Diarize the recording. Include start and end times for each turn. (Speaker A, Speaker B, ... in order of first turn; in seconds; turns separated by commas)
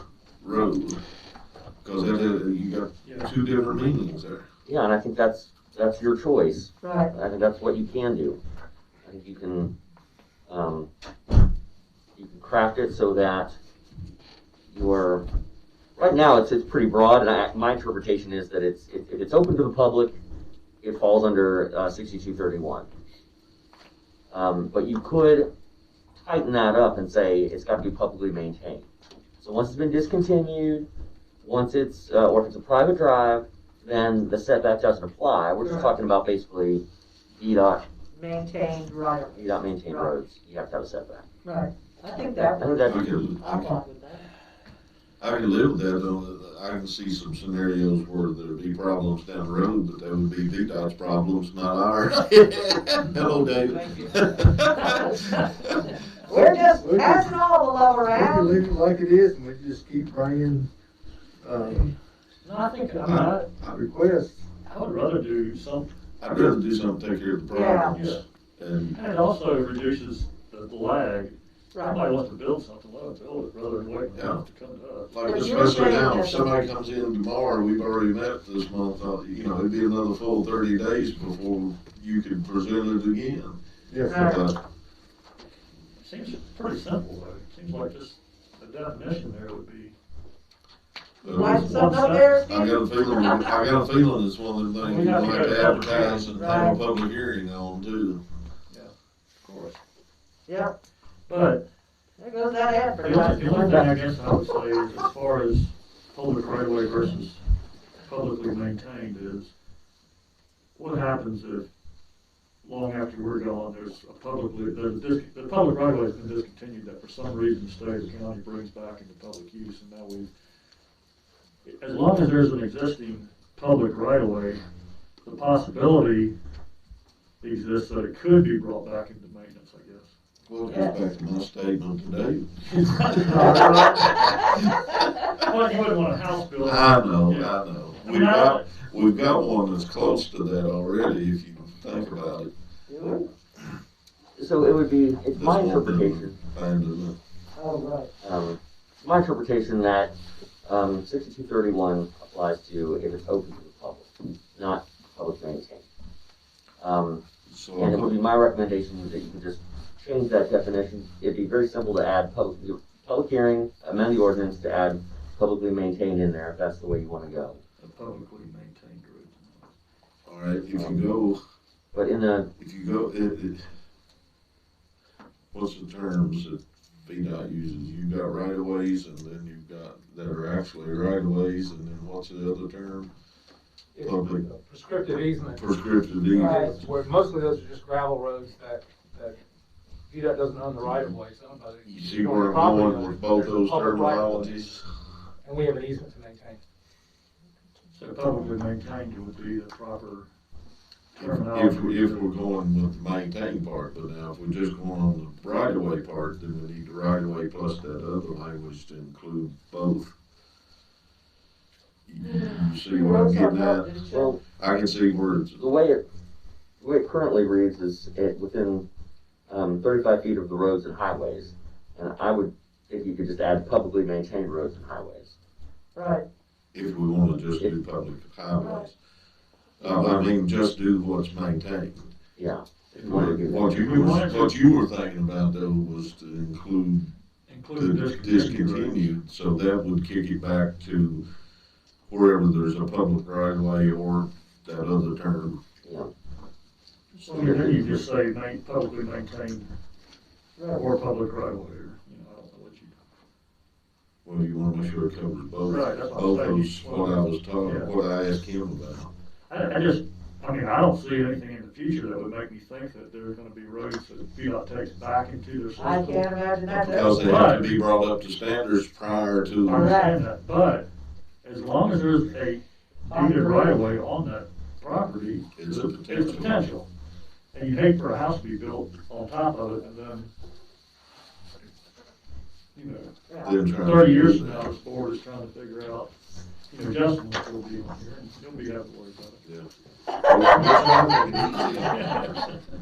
Speaker A: 0.4-1.0, Speaker A: 1.8-4.4, Speaker B: 3.0-3.3, Speaker C: 4.7-8.4, Speaker D: 6.8-7.1, Speaker C: 9.0-9.7, Speaker C: 10.5-10.9, Speaker C: 12.2-13.6, Speaker C: 14.7-15.2, Speaker C: 16.0-20.2, Speaker C: 20.8-22.9, Speaker C: 24.3-25.5, Speaker C: 26.2-28.9, Speaker C: 29.4-30.9, Speaker C: 31.4-36.8, Speaker D: 35.6-35.9, Speaker C: 37.4-37.8, Speaker D: 38.1-40.1, Speaker C: 39.4-41.2, Speaker D: 41.4-44.2, Speaker C: 42.6-43.1, Speaker A: 42.8-43.8, Speaker A: 45.2-55.9, Speaker D: 53.8-55.0, Speaker D: 56.3-58.5, Speaker E: 56.3-57.4, Speaker E: 58.0-60.7, Speaker E: 61.4-61.9, Speaker B: 62.4-63.5, Speaker E: 63.6-64.4, Speaker B: 64.6-65.9, Speaker A: 66.2-69.0, Speaker D: 67.5-67.9, Speaker B: 67.7-68.2, Speaker B: 68.9-75.1, Speaker D: 71.7-72.0, Speaker A: 74.1-74.4, Speaker A: 75.1-84.6, Speaker D: 75.2-76.5, Speaker E: 83.9-84.2, Speaker D: 84.1-84.5, Speaker B: 86.0-90.0, Speaker A: 91.2-98.2, Speaker D: 91.2-93.6, Speaker B: 91.3-92.3, Speaker B: 94.8-96.3, Speaker D: 96.3-96.8, Speaker B: 98.7-99.8, Speaker D: 100.5-100.7, Speaker B: 101.3-101.7, Speaker D: 102.2-103.9, Speaker B: 103.0-107.4, Speaker B: 108.0-109.5, Speaker B: 110.8-111.7, Speaker B: 112.6-120.3, Speaker B: 121.6-124.6, Speaker B: 125.2-126.3, Speaker B: 127.4-130.1, Speaker A: 130.5-132.5, Speaker D: 130.7-130.9, Speaker B: 132.7-134.5, Speaker A: 133.1-135.2, Speaker B: 135.3-138.7, Speaker A: 136.6-142.5, Speaker D: 142.9-143.3, Speaker C: 144.4-146.4, Speaker A: 145.3-147.2, Speaker D: 147.5-148.1, Speaker C: 148.2-150.1, Speaker C: 150.6-155.8, Speaker C: 156.8-157.2, Speaker A: 157.5-158.2, Speaker C: 157.8-167.6, Speaker B: 167.8-169.7, Speaker A: 170.2-171.4, Speaker C: 170.7-171.0, Speaker C: 171.9-172.5, Speaker A: 172.6-173.7, Speaker A: 175.5-183.1, Speaker F: 183.9-185.7, Speaker A: 184.0-184.4, Speaker A: 185.6-186.8, Speaker F: 186.3-189.4, Speaker D: 186.3-186.8, Speaker F: 190.1-194.5, Speaker A: 191.8-194.8, Speaker F: 195.4-196.6, Speaker B: 197.9-200.3, Speaker A: 201.2-210.1, Speaker B: 201.2-202.2, Speaker A: 212.1-213.9, Speaker D: 212.2-214.4, Speaker C: 214.1-214.4, Speaker A: 214.6-215.6, Speaker C: 215.6-216.0, Speaker C: 216.8-218.8, Speaker C: 219.5-225.3, Speaker D: 225.9-226.2, Speaker A: 226.7-228.9, Speaker D: 228.6-228.8, Speaker A: 229.8-232.1, Speaker C: 229.8-230.3, Speaker C: 232.4-233.8, Speaker B: 232.9-234.6, Speaker A: 233.0-237.1, Speaker B: 237.5-239.1, Speaker A: 237.8-241.2, Speaker A: 242.1-245.6, Speaker C: 245.8-246.1, Speaker B: 247.1-249.7, Speaker C: 247.4-248.0, Speaker D: 250.6-250.8, Speaker B: 250.7-253.0, Speaker A: 254.2-259.1, Speaker B: 255.6-257.9, Speaker B: 259.5-266.2, Speaker D: 265.8-267.4, Speaker A: 266.7-269.9, Speaker B: 267.1-267.8, Speaker B: 269.6-270.9, Speaker D: 269.7-270.2, Speaker B: 271.4-276.9, Speaker D: 273.1-273.8, Speaker A: 275.6-276.6, Speaker B: 277.5-280.3, Speaker B: 282.7-283.1, Speaker D: 283.3-283.6, Speaker A: 283.4-284.6, Speaker B: 283.8-286.1, Speaker B: 286.7-289.4, Speaker D: 290.2-290.7, Speaker A: 290.2-292.1, Speaker B: 290.4-292.5